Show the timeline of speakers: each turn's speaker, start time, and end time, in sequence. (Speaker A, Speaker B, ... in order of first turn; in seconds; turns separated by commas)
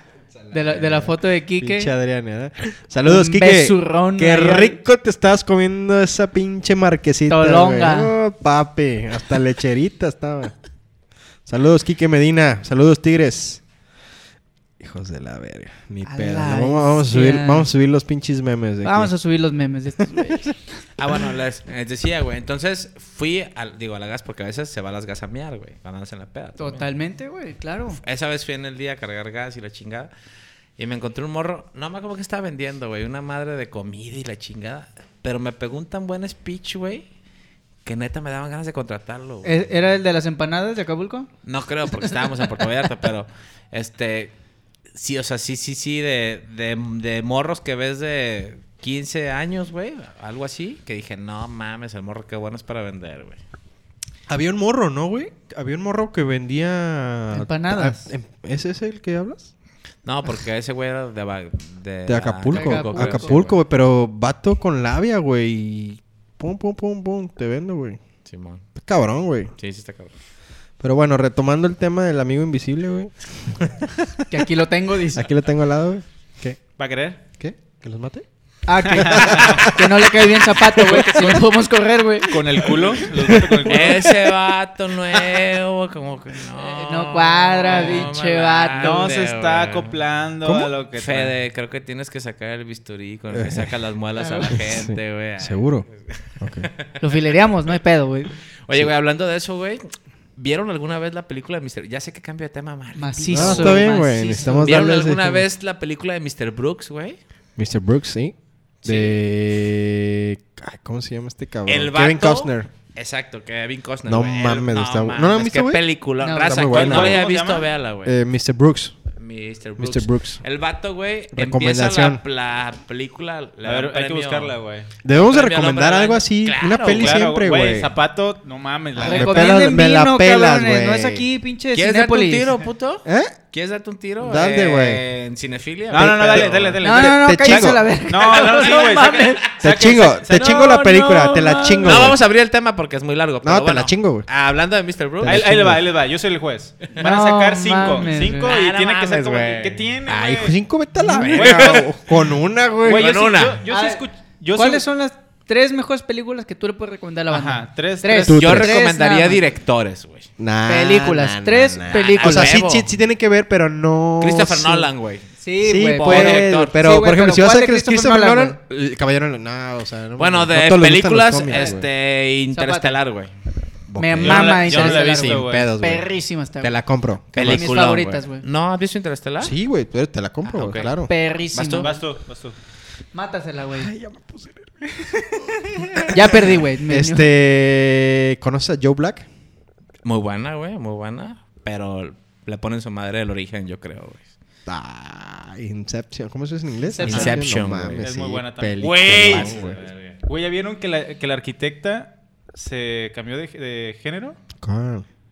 Speaker A: 0.5-1.9, Speaker B: 1.6-10.5, Speaker A: 3.0-4.8, Speaker A: 7.3-8.1, Speaker B: 11.4-13.6, Speaker B: 14.8-19.1, Speaker A: 16.0-17.7, Speaker A: 18.8-20.5, Speaker B: 20.1-20.5, Speaker C: 21.0-26.9, Speaker A: 26.6-28.0, Speaker C: 28.0-30.1, Speaker C: 30.8-37.1, Speaker C: 37.8-39.6, Speaker A: 39.4-41.3, Speaker C: 41.4-44.3, Speaker C: 44.9-53.4, Speaker B: 54.3-59.5, Speaker A: 57.3-58.1, Speaker C: 60.0-63.6, Speaker B: 62.0-68.0, Speaker A: 62.5-63.4, Speaker C: 68.2-68.6, Speaker B: 68.8-69.5, Speaker C: 69.6-70.1, Speaker B: 70.8-74.0, Speaker A: 74.3-75.3, Speaker B: 75.1-76.6, Speaker D: 76.8-77.2, Speaker B: 77.4-78.2, Speaker A: 78.7-82.6, Speaker B: 78.8-81.4, Speaker D: 78.9-79.7, Speaker D: 82.3-84.2, Speaker B: 82.6-83.9, Speaker C: 83.6-89.9, Speaker A: 86.5-89.1, Speaker D: 87.7-88.0, Speaker D: 88.8-91.3, Speaker B: 90.4-90.7, Speaker C: 90.9-97.0, Speaker B: 93.3-93.7, Speaker A: 94.2-94.6, Speaker B: 94.5-95.8, Speaker B: 96.4-96.7, Speaker A: 97.0-98.3, Speaker C: 98.6-99.8, Speaker C: 100.3-107.2, Speaker A: 103.0-104.8, Speaker B: 103.3-105.4, Speaker B: 107.6-112.7, Speaker C: 108.8-109.2, Speaker C: 111.7-118.2, Speaker B: 114.0-115.8, Speaker A: 116.2-116.7, Speaker B: 116.5-117.2, Speaker D: 116.7-117.7, Speaker B: 118.0-118.9, Speaker C: 119.2-124.5, Speaker B: 119.8-120.4, Speaker B: 121.3-122.2, Speaker D: 123.6-124.9, Speaker B: 125.0-127.9, Speaker C: 125.1-127.2, Speaker D: 126.9-129.7, Speaker B: 129.0-131.2, Speaker A: 129.0-132.5, Speaker C: 131.7-136.8, Speaker B: 133.0-133.3, Speaker B: 134.2-135.0, Speaker D: 135.9-140.8, Speaker B: 135.9-137.8, Speaker A: 136.8-139.5, Speaker B: 139.6-142.2, Speaker A: 140.3-142.1, Speaker C: 141.8-145.5, Speaker B: 143.4-144.2, Speaker B: 145.2-145.8, Speaker D: 145.2-150.5, Speaker A: 146.9-148.5, Speaker C: 148.4-149.9, Speaker B: 150.1-153.1, Speaker C: 151.0-151.9, Speaker D: 151.3-151.9, Speaker D: 152.8-154.8, Speaker C: 152.8-153.6, Speaker A: 153.7-154.0, Speaker A: 154.5-159.4, Speaker D: 157.3-158.6, Speaker B: 158.3-158.8, Speaker C: 158.3-160.3, Speaker B: 160.4-164.9, Speaker A: 160.7-162.6, Speaker C: 161.9-162.9, Speaker C: 164.2-165.3, Speaker A: 165.4-168.6, Speaker B: 165.6-171.8, Speaker C: 166.0-166.8, Speaker C: 170.2-173.3, Speaker A: 172.5-172.9, Speaker B: 173.9-176.0, Speaker A: 174.0-176.7, Speaker D: 174.2-175.7, Speaker C: 174.8-175.5, Speaker B: 176.6-177.7, Speaker C: 177.3-179.5, Speaker A: 177.3-178.4, Speaker B: 179.4-181.1, Speaker C: 180.4-180.9, Speaker A: 180.9-181.9, Speaker C: 181.5-181.9, Speaker D: 181.8-182.6, Speaker A: 183.1-183.9, Speaker B: 183.8-189.2, Speaker A: 186.1-187.3, Speaker C: 190.0-194.3, Speaker B: 194.7-199.8, Speaker A: 196.9-197.4, Speaker C: 197.0-198.0, Speaker D: 198.0-199.7, Speaker C: 199.0-200.2, Speaker D: 200.2-204.4, Speaker B: 204.6-205.0